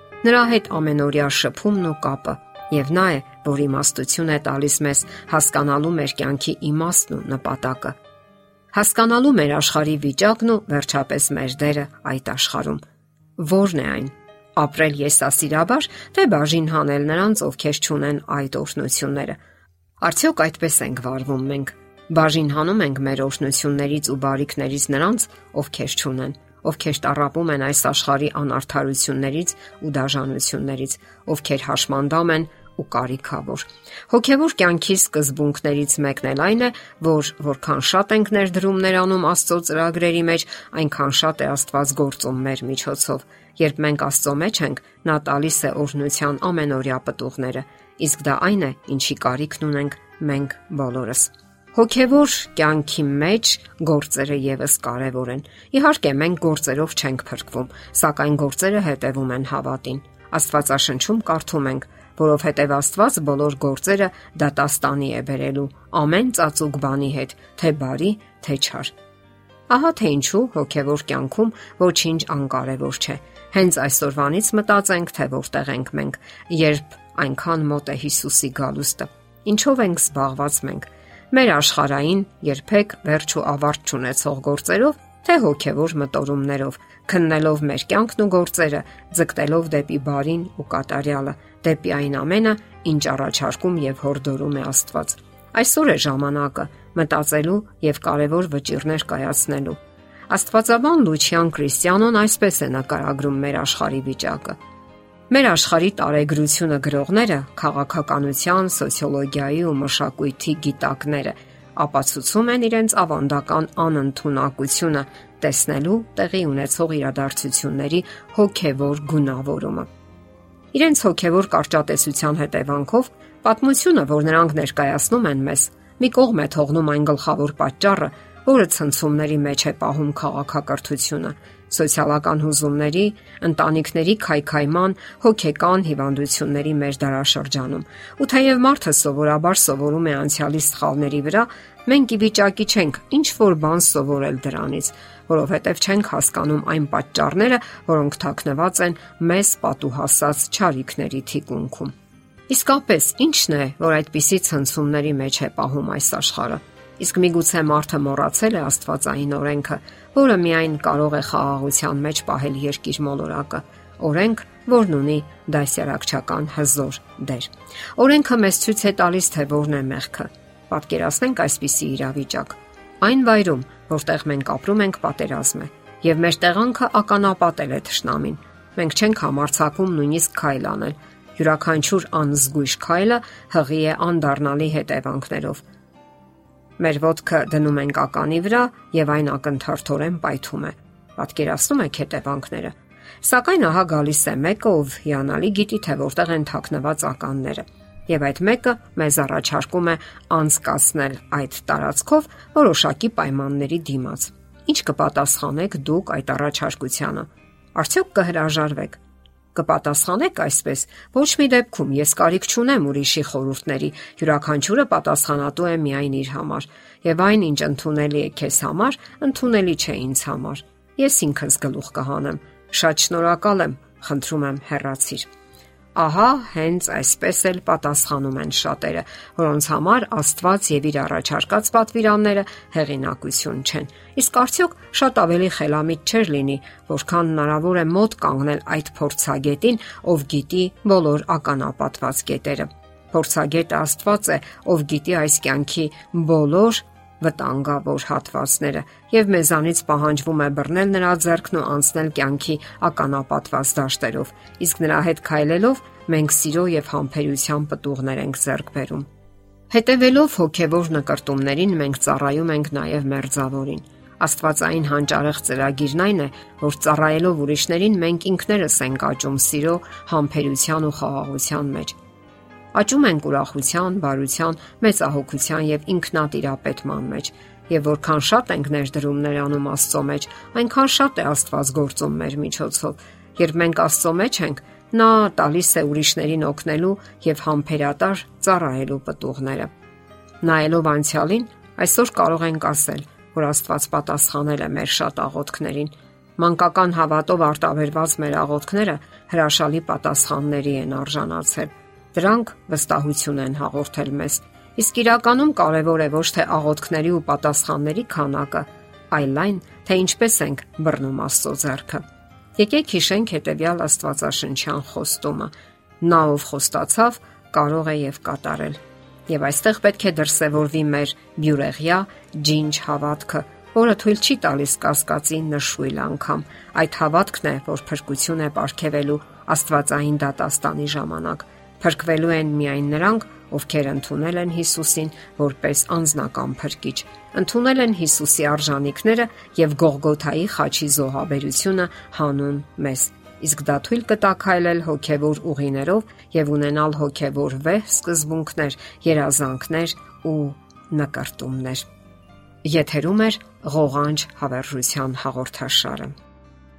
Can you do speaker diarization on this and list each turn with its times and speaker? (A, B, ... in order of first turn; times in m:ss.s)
0:00.2-0:08.0 A
0:08.7-0:12.8 A
0:13.4-0:19.4 A
0:20.0-1:08.9 A
1:09.7-1:39.8 A
1:40.3-1:44.6 A
1:45.3-1:59.9 A
2:00.7-2:31.9 A
2:32.5-3:05.6 A
3:06.8-3:29.0 A
3:29.5-3:45.3 A
3:45.9-4:19.1 A
4:19.7-4:32.0 A
4:32.7-4:49.7 A
4:50.4-5:12.0 A
5:12.6-5:51.8 A
5:52.6-5:56.1 A